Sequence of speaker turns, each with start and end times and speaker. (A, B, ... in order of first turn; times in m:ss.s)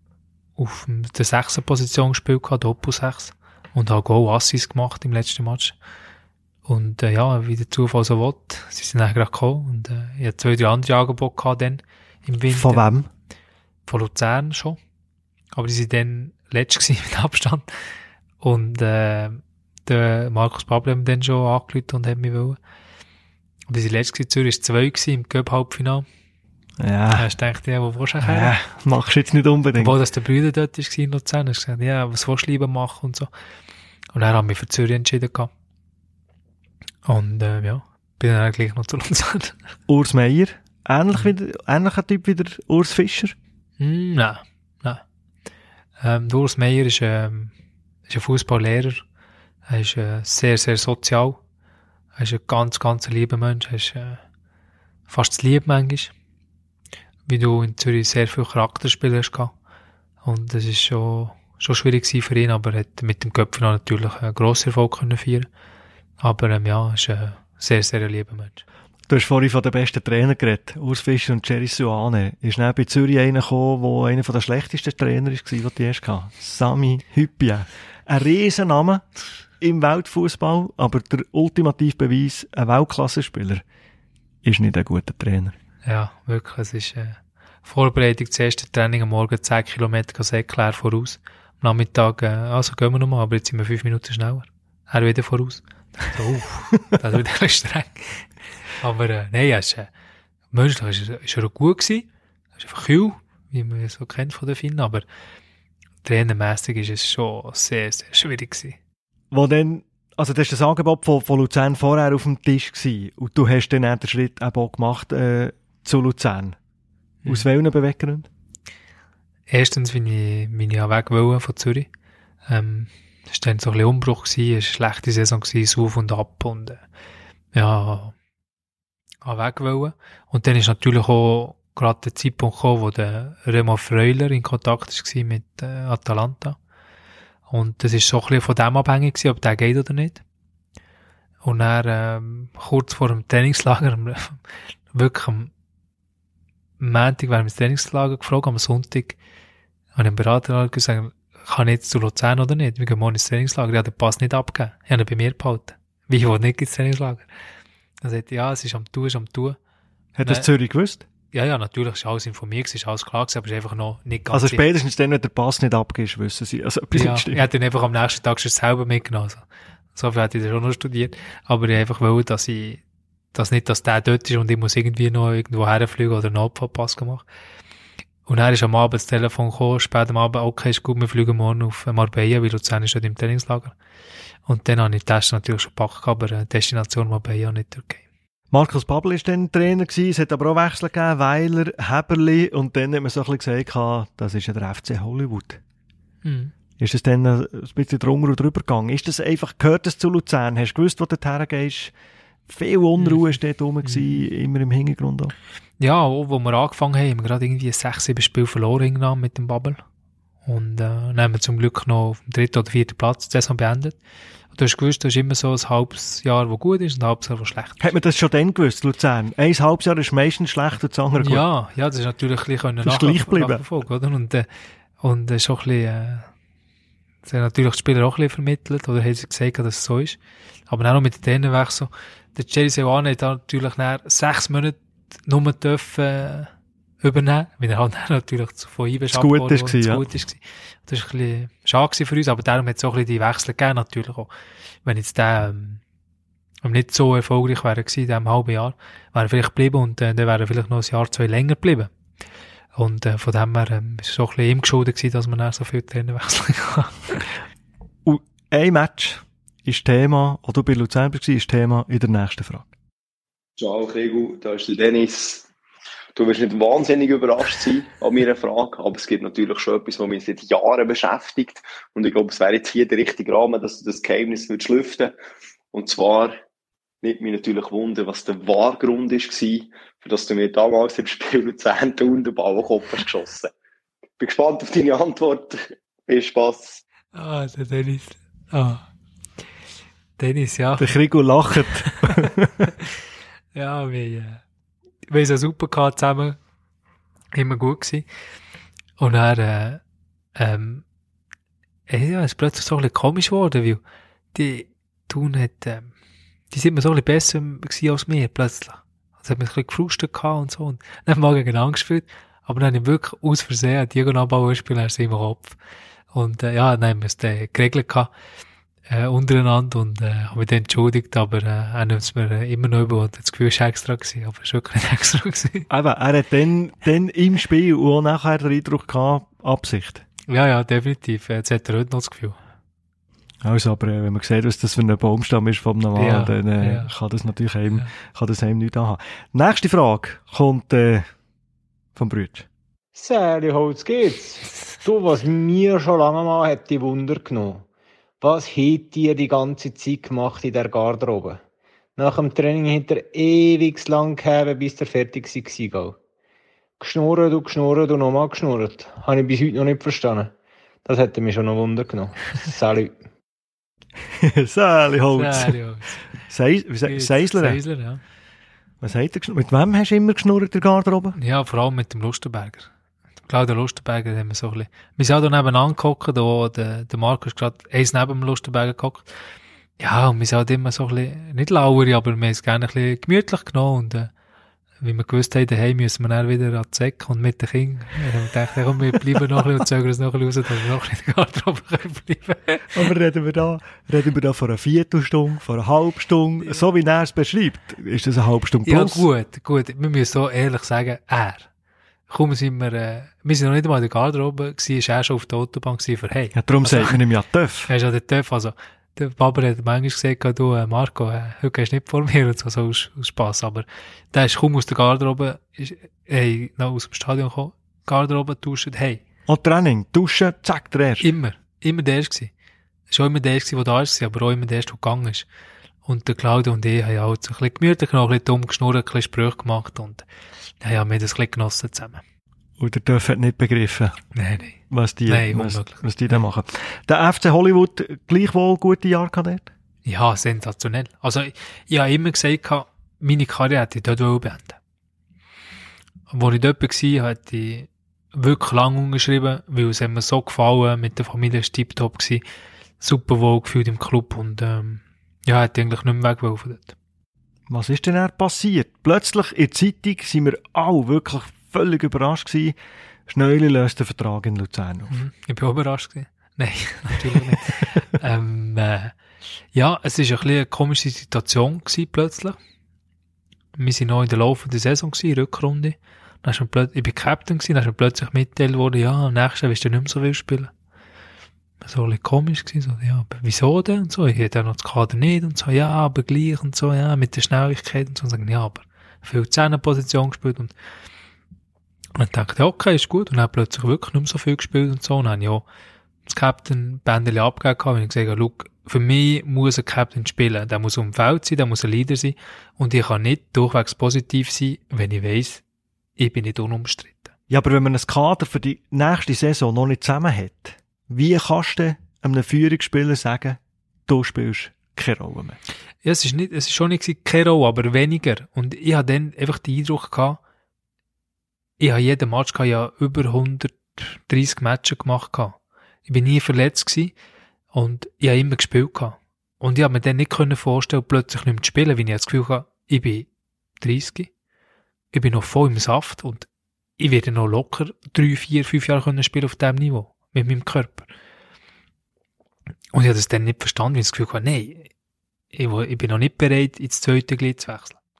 0:00.6-0:05.8 A
0:06.7-0:12.9 A
0:12.5-0:13.1 B
0:13.9-0:14.8 A
0:15.5-0:17.7 A
0:18.4-0:22.6 A
0:23.7-0:26.1 A
0:26.8-0:27.3 B
0:27.2-0:28.6 A
0:28.2-0:30.0 B
0:29.8-0:33.3 A
0:34.1-0:35.5 A
0:37.1-0:39.6 A
0:39.9-0:43.4 B
0:43.8-0:45.0 A
0:46.0-0:47.5 A
0:48.1-0:49.0 A
0:49.7-0:51.4 A
0:52.2-0:54.2 A
0:55.1-0:56.1 A
0:57.3-0:59.5 A
1:00.2-1:05.5 A
1:06.2-1:08.6 A
1:09.1-1:19.0 B
1:19.6-1:23.6 B
1:24.4-1:25.6 B
1:25.8-1:38.3 A
1:38.8-1:39.9 A
1:40.5-1:45.0 A
1:46.0-1:48.8 A
1:49.3-1:56.6 B
1:57.3-1:58.3 B
1:59.5-2:01.9 A
2:02.5-2:06.8 A
2:07.5-2:08.1 A
2:09.2-2:16.6 A
2:17.5-2:20.2 A
2:21.4-2:24.4 A
2:24.9-2:25.5 A
2:26.8-2:29.2 A
2:30.0-2:37.3 A
2:38.0-2:39.6 A
2:40.2-2:41.1 B
2:40.2-2:40.5 A
2:41.3-2:44.6 A
2:44.3-2:47.5 B
2:46.9-2:52.8 A
2:53.3-2:57.2 A
2:58.3-3:03.7 A
3:04.5-3:08.0 A
3:08.5-3:15.6 B
3:16.2-3:16.5 A
3:16.8-3:21.9 B
3:22.5-3:25.3 B
3:23.0-3:24.2 A
3:25.8-3:29.8 A
3:30.5-3:34.0 A
3:34.5-3:37.9 A
3:37.8-3:41.4 B
3:41.2-3:44.5 A
3:42.8-3:43.6 B
3:45.0-3:46.3 A
3:47.2-3:50.2 A
3:50.7-3:56.5 A
3:57.0-4:04.3 A
3:59.1-4:00.1 B
4:04.8-4:05.8 A
4:06.6-4:11.9 A
4:12.8-4:17.3 A
4:18.0-4:22.7 B
4:23.6-4:25.5 C
4:26.2-4:35.2 C
4:35.7-4:36.4 C
4:37.0-4:43.5 C
4:44.2-4:46.8 C
4:47.1-4:48.8 A
4:50.2-4:51.0 A
4:50.8-4:52.7 B
4:51.6-4:52.9 A
4:53.5-4:54.4 A
4:55.1-4:56.4 A
4:57.3-4:58.1 A
4:59.0-4:59.8 A
5:00.4-5:00.8 A
5:01.9-5:03.8 A
5:04.3-5:05.9 A
5:06.5-5:15.6 A
5:16.1-5:18.1 A
5:18.9-5:25.7 A
5:25.7-5:30.0 B
5:30.3-5:32.4 A
5:33.4-5:41.1 B
5:36.0-5:36.9 A
5:42.0-5:42.5 B
5:43.0-5:47.6 D
5:48.2-5:51.4 D
5:52.0-5:56.0 D
5:56.8-6:00.3 D
6:00.9-6:03.0 D
6:04.2-6:05.6 B
6:05.1-6:06.1 A
6:06.3-6:07.6 B
6:06.9-6:08.0 A
6:08.8-6:11.2 B
6:11.2-6:12.7 A
6:13.3-6:19.1 A
6:19.8-6:24.1 A
6:24.8-6:32.9 A
6:32.7-6:39.1 B
6:38.6-6:41.5 A
6:42.1-6:47.0 A
6:46.3-6:47.7 B
6:47.7-6:59.0 A
6:59.3-7:01.1 B
7:01.0-7:02.3 A
7:02.9-7:05.3 A
7:05.8-7:10.0 A
7:10.6-7:12.0 A
7:12.6-7:14.0 B
7:14.2-7:16.2 A
7:14.7-7:19.5 B
7:19.8-7:24.6 A
7:26.1-7:32.2 A
7:32.8-7:36.8 A
7:37.5-7:42.6 B
7:43.1-7:44.9 B
7:44.9-7:48.9 A
7:49.5-7:52.4 A
7:53.6-8:00.5 A
8:01.6-8:10.5 A
8:12.0-8:15.4 A
8:16.1-8:25.4 A
8:26.0-8:27.1 A
8:27.3-8:35.4 B
8:35.8-8:40.2 A
8:41.6-8:45.4 A
8:45.9-8:46.9 A
8:47.5-8:53.1 A
8:53.6-8:54.1 A
8:54.9-8:56.3 A
8:56.8-9:00.9 A
9:02.7-9:04.7 A
9:05.3-9:07.8 A